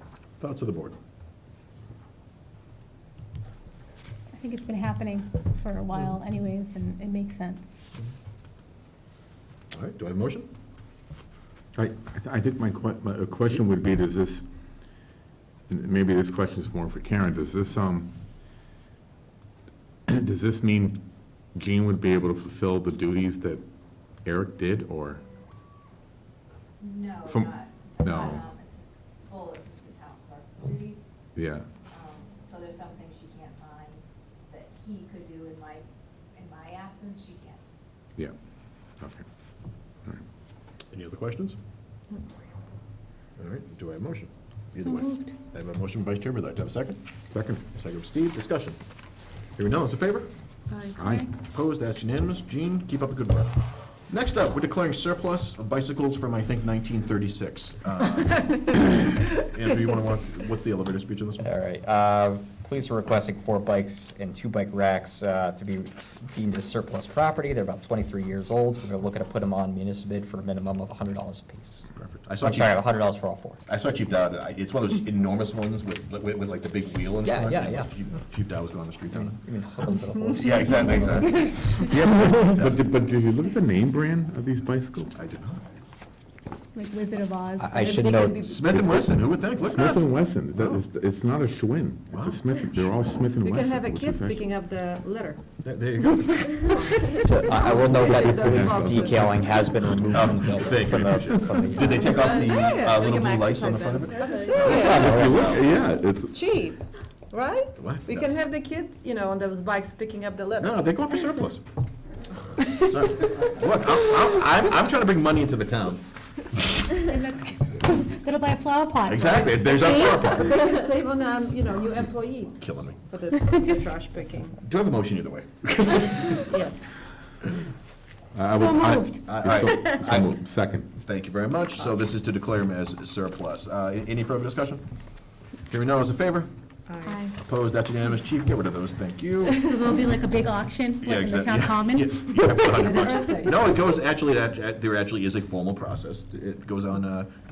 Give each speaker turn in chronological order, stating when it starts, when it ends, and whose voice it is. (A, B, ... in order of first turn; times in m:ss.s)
0:00.4-0:01.0 A
0:04.4-0:07.9 B
0:09.7-0:10.5 A
0:11.8-0:14.5 C
0:15.7-0:18.1 C
0:20.1-0:21.0 C
0:21.6-0:23.6 C
0:24.2-0:25.2 C
0:26.8-0:31.0 D
0:27.2-0:28.5 C
0:31.4-0:31.7 C
0:31.9-0:35.8 D
0:36.4-0:37.7 D
0:40.9-0:41.6 A
0:43.4-0:47.0 A
0:44.8-0:45.3 B
0:47.3-0:47.6 C
0:47.8-0:48.8 A
0:49.6-0:50.3 A
0:51.0-0:51.3 C
0:51.0-0:51.3 B
0:51.5-0:53.6 A
0:54.1-0:58.5 A
0:58.3-0:59.4 E
0:59.5-1:01.4 A
1:01.4-1:11.9 F
1:12.0-1:12.7 A
1:12.4-1:13.6 F
1:13.7-1:19.4 A
1:17.2-1:17.9 F
1:19.1-1:21.6 F
1:20.4-1:21.8 A
1:21.3-1:22.0 B
1:21.9-1:25.2 C
1:25.2-1:25.6 A
1:26.8-1:28.0 B
1:27.6-1:28.4 F
1:27.9-1:29.1 E
1:28.4-1:30.0 A
1:28.7-1:34.5 C
1:29.7-1:30.1 E
1:33.4-1:35.4 E
1:35.6-1:36.6 A
1:36.0-1:39.4 E
1:37.2-1:42.2 F
1:37.7-1:39.5 C
1:40.1-1:45.6 A
1:40.3-1:45.3 E
1:44.2-1:44.8 D
1:44.6-1:46.4 C
1:44.8-1:45.3 F
1:46.3-1:46.8 E
1:47.3-1:51.5 E
1:47.8-1:48.3 A
1:50.6-1:51.6 A
1:52.7-1:54.7 E
1:52.8-1:56.0 A
1:57.1-1:59.6 B
1:59.1-2:00.5 A
1:59.3-2:04.6 E
2:02.6-2:03.0 A
2:03.3-2:04.0 B
2:04.6-2:06.0 A
2:06.0-2:06.9 E
2:08.3-2:10.9 C
2:08.5-2:09.4 B
2:09.3-2:10.4 A
2:11.0-2:14.8 A
2:15.7-2:16.5 A
2:16.9-2:17.2 E
2:17.0-2:17.3 B
2:17.4-2:19.7 A
2:17.7-2:18.7 E
2:19.4-2:23.0 B
2:21.0-2:23.5 A
2:22.2-2:24.2 E
2:24.0-2:27.3 A